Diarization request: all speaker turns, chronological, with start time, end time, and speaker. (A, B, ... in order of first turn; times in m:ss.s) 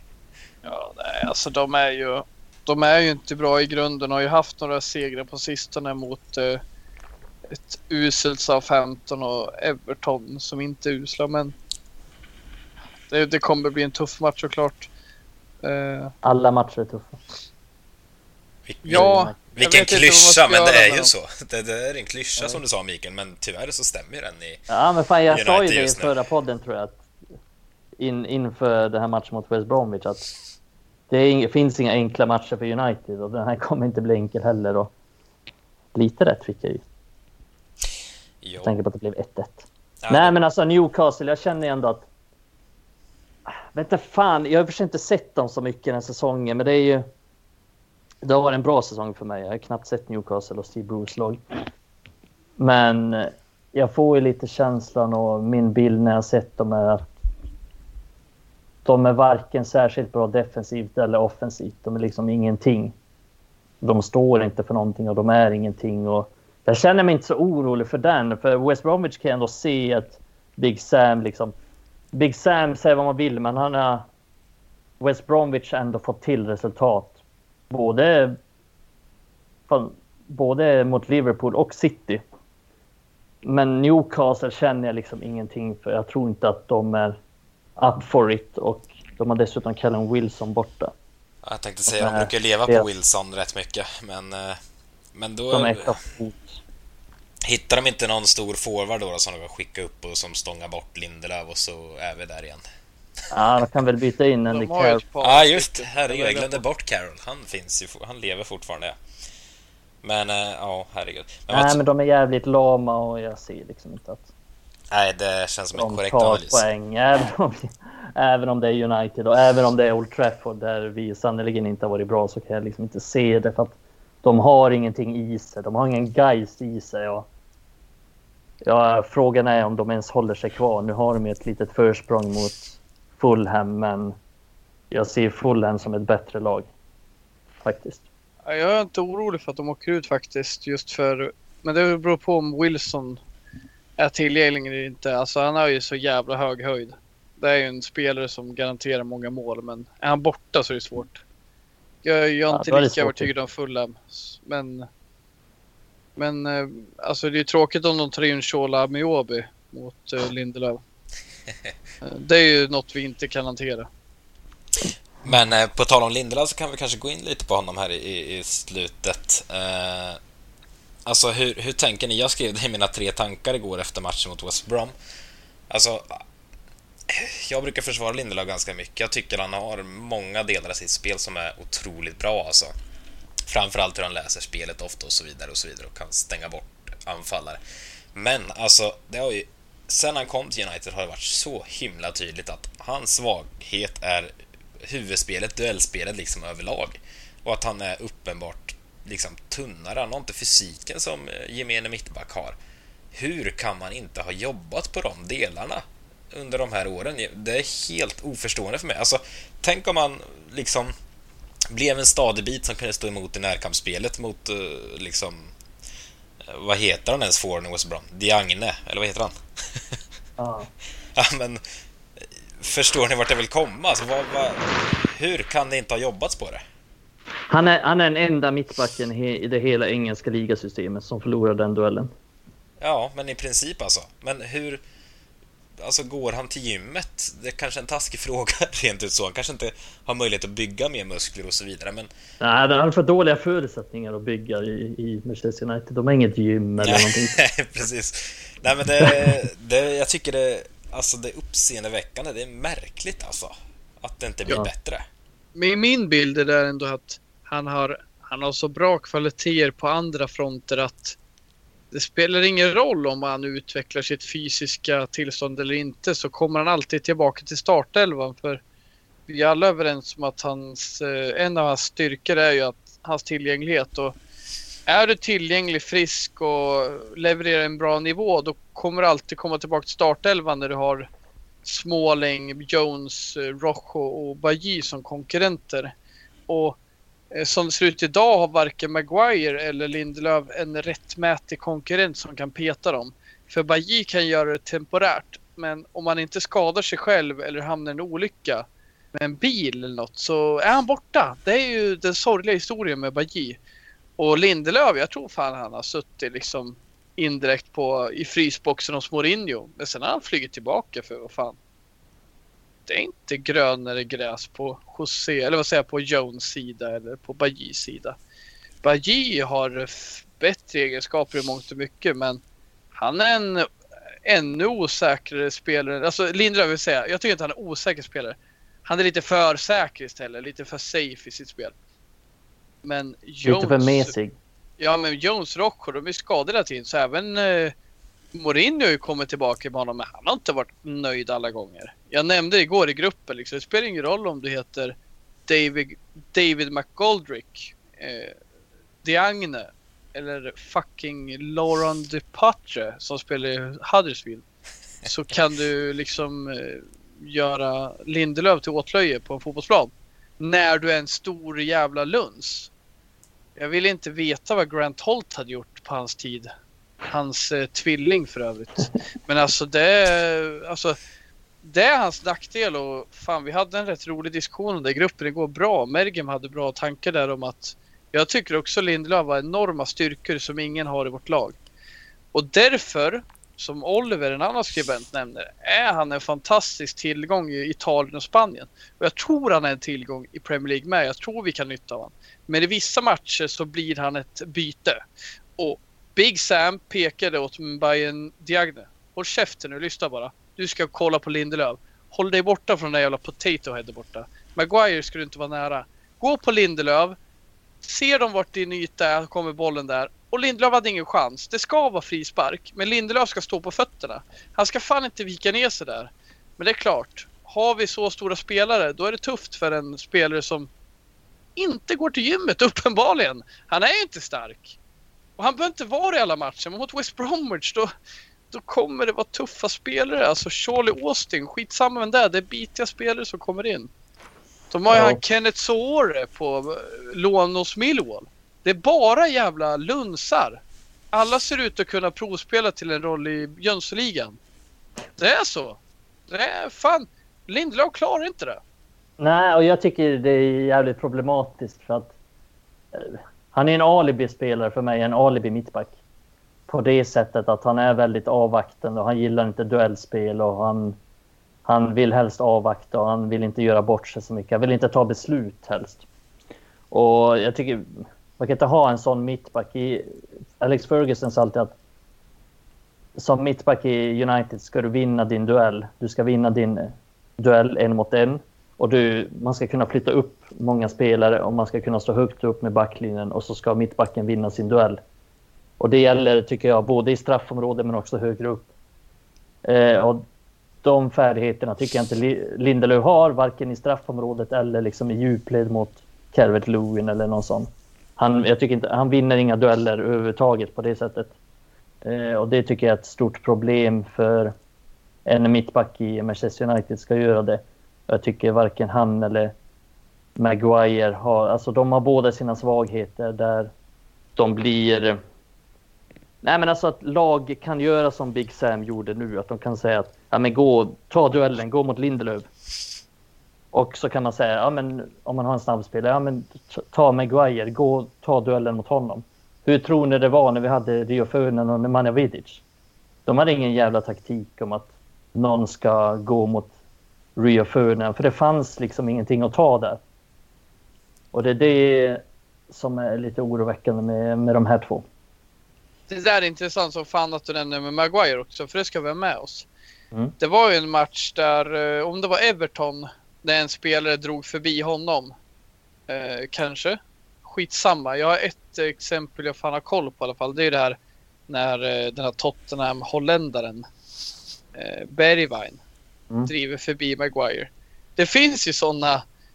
0:00.6-0:06.6 A
0:07.5-0:11.5 A
0:13.1-0:14.9 A
0:15.6-0:16.1 A
0:16.2-0:17.2 B
0:18.6-0:24.6 C
0:18.8-0:21.1 A
0:18.9-0:19.4 B
0:24.7-0:27.0 B
0:25.3-0:26.1 C
0:28.0-0:30.3 B
0:31.1-0:34.9 B
0:35.9-0:36.8 B
0:38.4-0:38.8 C
0:38.6-0:42.1 B
0:40.0-0:40.3 C
0:43.5-0:47.0 B
0:48.2-0:51.4 B
0:52.6-0:57.1 B
0:58.8-1:02.9 B
1:03.8-1:11.5 B
1:12.1-1:14.0 B
1:15.0-1:17.2 B
1:17.7-1:18.4 B
1:19.7-1:22.2 B
1:23.4-1:27.2 B
1:27.8-1:30.9 B
1:31.4-1:34.6 C
1:31.9-1:32.9 B
1:35.1-1:36.0 C
1:35.5-1:36.6 B
1:37.4-1:42.6 C
1:43.3-1:45.0 B
1:44.5-1:46.6 A
1:45.2-1:49.0 C
1:50.0-1:51.8 C
1:51.5-1:54.3 B
1:54.9-1:56.6 C
1:55.7-2:07.3 B
2:08.6-2:14.1 B
2:14.9-2:16.7 B
2:17.6-2:18.0 B
2:18.4-2:23.2 A
2:24.0-2:31.2 A
2:32.0-2:34.9 A
2:32.5-2:33.3 B
2:36.2-2:40.8 A
2:42.0-2:43.9 A
2:45.2-2:50.2 C
2:51.0-2:54.9 C
2:55.7-2:56.2 C
2:57.1-3:02.7 C
3:03.5-3:07.6 C
3:08.1-3:22.6 C
3:23.1-3:30.9 C
3:31.7-3:35.5 C
3:36.4-3:40.0 C
3:40.4-3:40.7 B
3:41.1-3:41.6 C
3:42.2-3:46.6 C
3:47.5-3:52.1 B
3:52.8-3:54.8 C
3:55.8-4:02.1 C
4:02.4-4:07.4 B
4:06.8-4:15.0 C
4:09.0-4:09.4 B
4:15.5-4:21.2 A
4:21.9-4:28.6 A
4:29.3-4:34.2 A
4:34.9-4:41.1 A
4:41.6-4:45.9 A
4:46.5-4:46.8 A
4:47.3-5:03.6 A
5:04.2-5:11.6 A
5:12.9-5:18.2 A
5:18.8-5:22.4 A
5:22.9-5:23.7 A
5:24.2-5:31.7 A
5:32.8-5:34.1 A
5:33.4-5:34.4 B
5:34.8-5:37.7 A
5:38.3-5:45.0 A
5:45.5-5:48.4 A
5:49.0-5:54.4 A
5:55.0-6:02.7 A
6:03.6-6:06.5 A
6:07.1-6:11.0 A
6:11.6-6:21.6 A
6:22.3-6:35.0 A
6:35.6-6:47.2 A
6:47.8-7:00.7 A
7:01.6-7:04.8 A
7:05.4-7:07.9 A
7:08.5-7:13.9 A
7:14.7-7:20.6 A
7:14.9-7:15.2 B
7:21.1-7:24.4 A
7:25.2-7:28.6 A
7:29.2-7:32.1 B
7:32.9-7:35.9 B
7:36.7-7:41.0 B
7:41.6-7:46.0 B
7:46.9-7:50.1 B
7:50.6-7:51.7 B
7:53.2-8:05.0 B
8:05.8-8:08.7 B
8:09.6-8:10.2 B
8:10.8-8:21.3 B
8:22.0-8:24.5 B
8:25.2-8:29.5 B
8:30.4-8:33.7 B
8:34.4-8:35.2 B
8:36.4-8:42.5 B
8:43.7-8:52.6 B
8:53.2-8:56.7 B
8:57.4-9:00.0 B
9:01.3-9:05.0 B
9:06.1-9:09.7 A
9:10.4-9:15.3 A
9:16.1-9:21.0 A
9:21.5-9:23.8 A
9:24.7-9:25.8 A
9:26.5-9:29.2 A